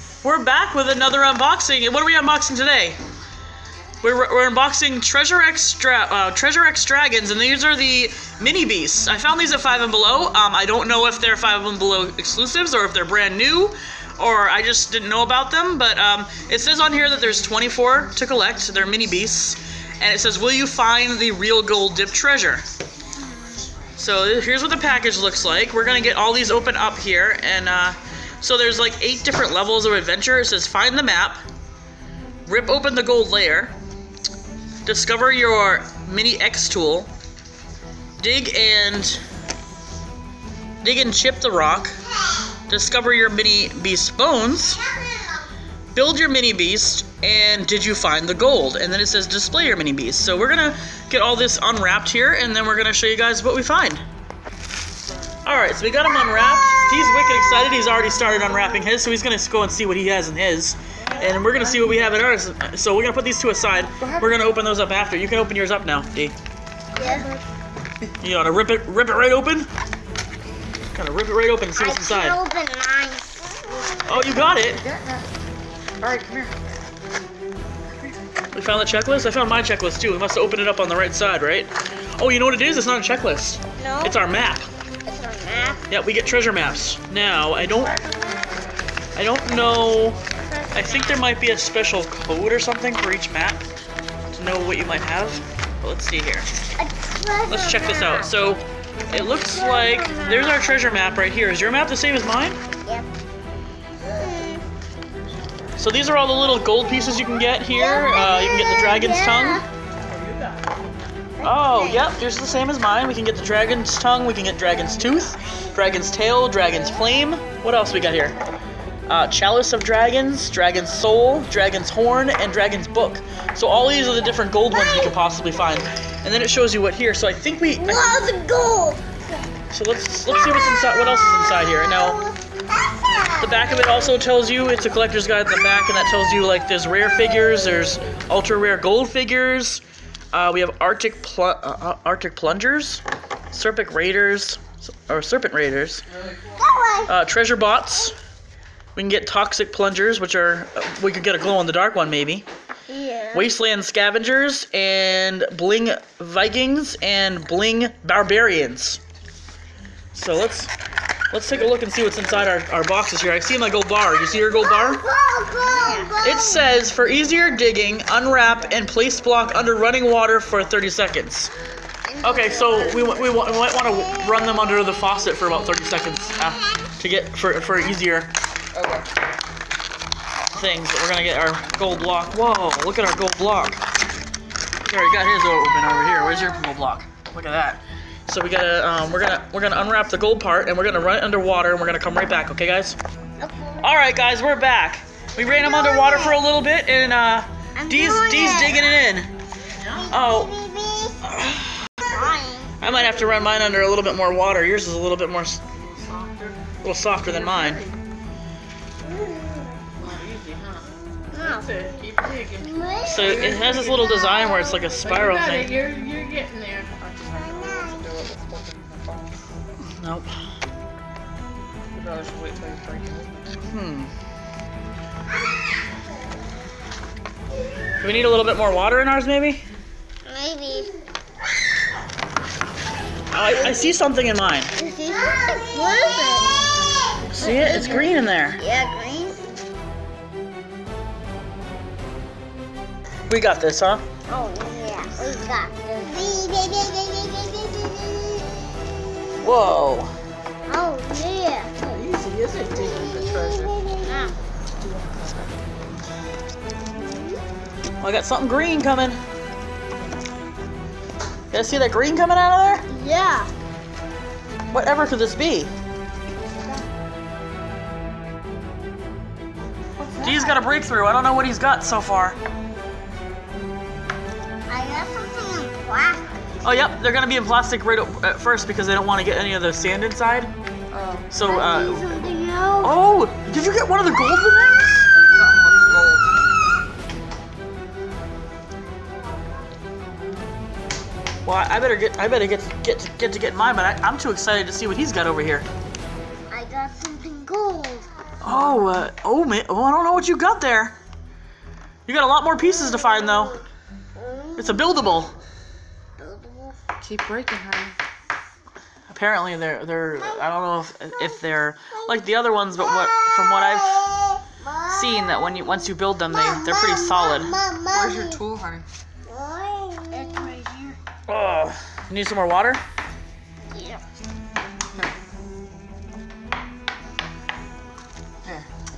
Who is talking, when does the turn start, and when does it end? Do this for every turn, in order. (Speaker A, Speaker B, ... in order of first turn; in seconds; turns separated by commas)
Speaker A: 0.2-3.0, Speaker A: 4.0-22.6, Speaker A: 24.0-31.4, Speaker A: 32.5-33.7, Speaker A: 34.9-37.1, Speaker A: 38.2-39.2, Speaker A: 40.8-42.0, Speaker B: 42.1-42.5, Speaker A: 42.7-44.8, Speaker B: 44.5-45.5, Speaker A: 46.0-54.0, Speaker A: 55.5-66.3, Speaker C: 61.5-61.9, Speaker C: 64.0-64.3, Speaker B: 67.0-67.3, Speaker C: 67.0-67.4, Speaker A: 68.2-69.7, Speaker A: 70.9-72.4, Speaker B: 71.8-74.1, Speaker C: 74.0-75.3, Speaker A: 74.0-74.8, Speaker C: 76.0-76.5, Speaker A: 78.5-84.7, Speaker B: 83.8-84.2, Speaker B: 85.0-85.9, Speaker A: 85.9-88.0, Speaker A: 89.2-90.2, Speaker B: 90.4-91.3, Speaker A: 90.7-93.6, Speaker A: 94.3-96.5, Speaker B: 96.8-98.4, Speaker A: 97.5-102.6, Speaker B: 99.1-100.8, Speaker B: 104.0-104.6, Speaker A: 105.8-109.6, Speaker B: 107.7-109.7, Speaker B: 111.4-112.1, Speaker A: 111.4-118.4, Speaker A: 119.1-128.1, Speaker B: 124.7-125.2, Speaker B: 127.8-129.2, Speaker A: 129.7-132.2, Speaker B: 130.3-133.9, Speaker A: 133.4-139.8, Speaker A: 140.3-146.0, Speaker B: 146.6-147.1, Speaker A: 147.1-148.2, Speaker A: 149.0-152.4, Speaker B: 152.9-153.5, Speaker A: 153.3-159.0, Speaker A: 160.1-160.7, Speaker A: 161.3-165.0, Speaker B: 164.6-166.7, Speaker A: 166.2-171.5, Speaker B: 172.1-173.4, Speaker A: 172.2-178.3, Speaker C: 178.7-179.1, Speaker A: 180.5-183.8, Speaker A: 184.8-193.0, Speaker B: 193.4-193.9, Speaker A: 193.8-199.3, Speaker B: 195.4-196.4, Speaker B: 197.8-198.9, Speaker A: 199.8-200.5, Speaker B: 199.9-201.2, Speaker A: 201.2-202.0, Speaker B: 202.0-202.9, Speaker A: 202.8-205.6, Speaker C: 205.7-206.6, Speaker A: 206.8-207.8, Speaker C: 207.2-208.0, Speaker B: 209.0-209.8, Speaker C: 210.0-210.9, Speaker B: 211.3-215.3, Speaker C: 211.4-214.0, Speaker A: 213.0-215.9, Speaker C: 215.1-219.4, Speaker B: 217.3-218.1, Speaker A: 219.8-220.3, Speaker C: 221.9-223.6, Speaker A: 223.7-224.1, Speaker A: 228.0-229.6, Speaker B: 230.3-230.9, Speaker A: 233.3-234.7, Speaker B: 233.5-234.0, Speaker B: 234.8-239.5, Speaker A: 237.3-238.6, Speaker C: 237.3-238.1, Speaker A: 243.3-244.0, Speaker B: 244.3-248.9, Speaker A: 249.4-250.1, Speaker B: 250.7-251.7, Speaker C: 251.8-253.7, Speaker B: 252.8-254.4, Speaker C: 254.8-255.5, Speaker B: 256.9-257.4, Speaker A: 258.0-259.2, Speaker A: 261.5-262.9, Speaker B: 262.7-263.5, Speaker A: 264.7-265.7, Speaker C: 270.0-270.5, Speaker A: 270.2-272.4, Speaker B: 274.7-276.3, Speaker A: 276.6-280.5, Speaker C: 280.9-281.3, Speaker A: 281.3-282.1, Speaker B: 281.4-283.0, Speaker A: 282.8-285.1, Speaker C: 285.1-286.3, Speaker A: 291.4-295.7, Speaker B: 296.5-298.1, Speaker A: 298.4-301.0, Speaker A: 302.1-303.6, Speaker B: 302.9-303.6, Speaker B: 304.2-305.2, Speaker A: 304.6-305.3, Speaker B: 306.2-306.8, Speaker C: 307.0-308.0, Speaker A: 309.1-314.1, Speaker B: 310.2-310.5, Speaker B: 311.9-312.2, Speaker B: 312.8-318.4, Speaker A: 314.9-317.6, Speaker C: 317.9-318.9, Speaker B: 319.3-321.0, Speaker A: 321.3-322.8, Speaker B: 323.7-324.0